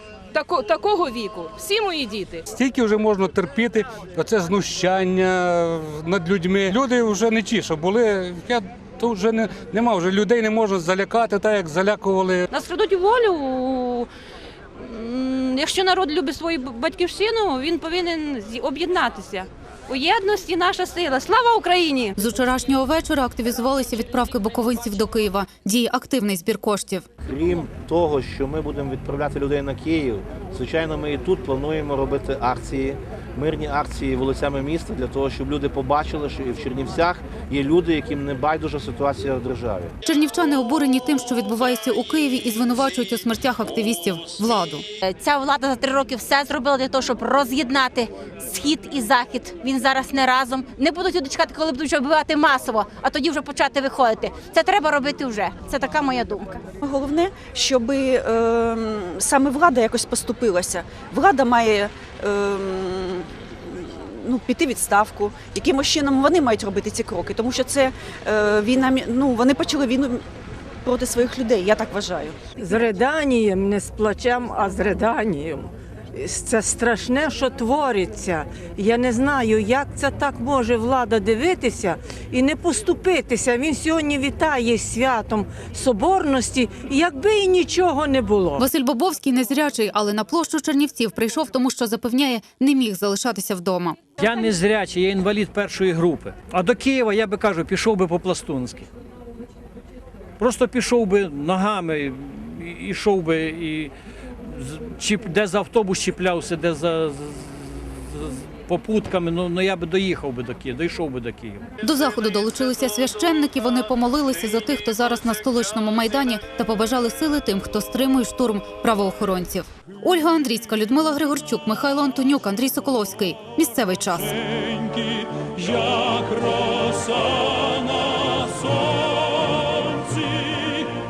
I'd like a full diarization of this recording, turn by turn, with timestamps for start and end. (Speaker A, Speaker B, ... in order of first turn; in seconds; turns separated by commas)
Speaker A: 0.3-2.4, Speaker B: 2.6-12.4, Speaker C: 12.5-14.1, Speaker C: 14.8-22.1, Speaker D: 22.2-27.0, Speaker E: 27.2-39.9, Speaker D: 40.0-44.8, Speaker F: 45.0-56.6, Speaker G: 56.8-70.2, Speaker G: 70.8-72.8, Speaker H: 72.6-88.6, Speaker D: 88.6-94.0, Speaker I: 94.2-98.9, Speaker I: 100.4-111.6, Speaker D: 111.8-124.3, Speaker I: 124.5-130.9